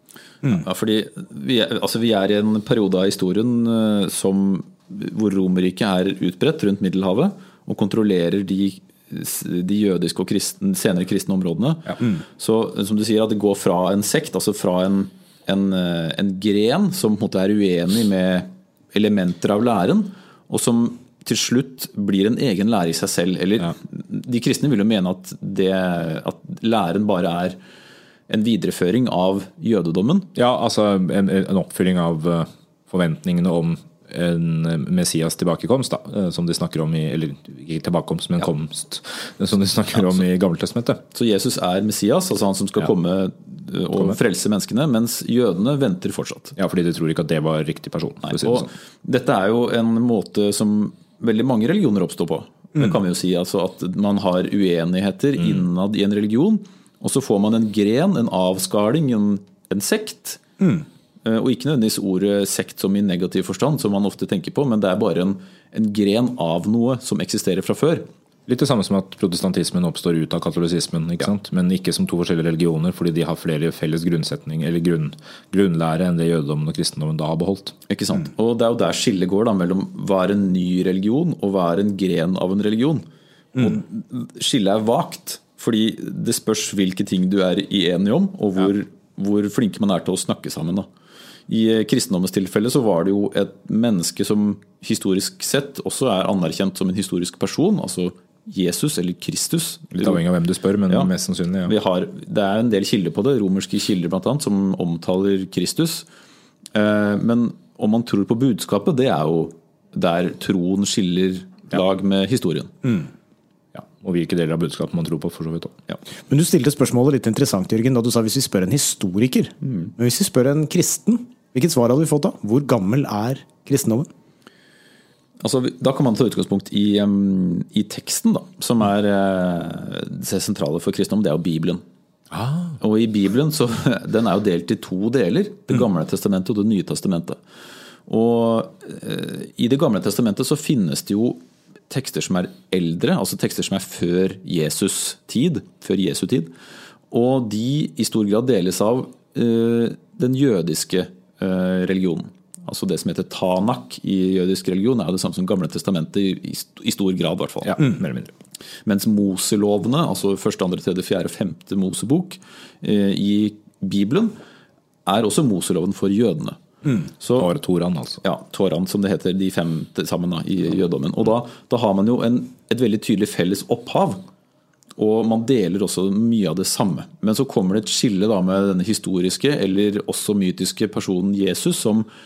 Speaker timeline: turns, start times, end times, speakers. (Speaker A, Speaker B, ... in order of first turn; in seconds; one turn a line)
Speaker A: 0.5-27.6
Speaker A: 28.3-30.3
Speaker B: 30.3-41.0
Speaker A: 41.1-46.5
Speaker B: 46.5-48.7
Speaker A: 48.3-60.4
Speaker A: 61.2-68.1
Speaker B: 68.5-77.8
Speaker A: 77.9-90.9
Speaker A: 91.5-100.2
Speaker B: 99.9-101.7
Speaker A: 101.7-106.0
Speaker A: 106.7-112.7
Speaker B: 113.7-115.8
Speaker C: 116.3-124.1
Speaker A: 119.6-119.9
Speaker A: 125.4-131.8
Speaker B: 132.3-132.8
Speaker A: 132.8-137.4
Speaker A: 138.1-146.5
Speaker A: 147.1-157.8
Speaker B: 157.6-158.3
Speaker A: 158.8-164.4
Speaker A: 165.1-166.6
Speaker A: 167.1-167.5
Speaker B: 167.4-168.2
Speaker A: 168.2-174.2
Speaker A: 175.0-182.1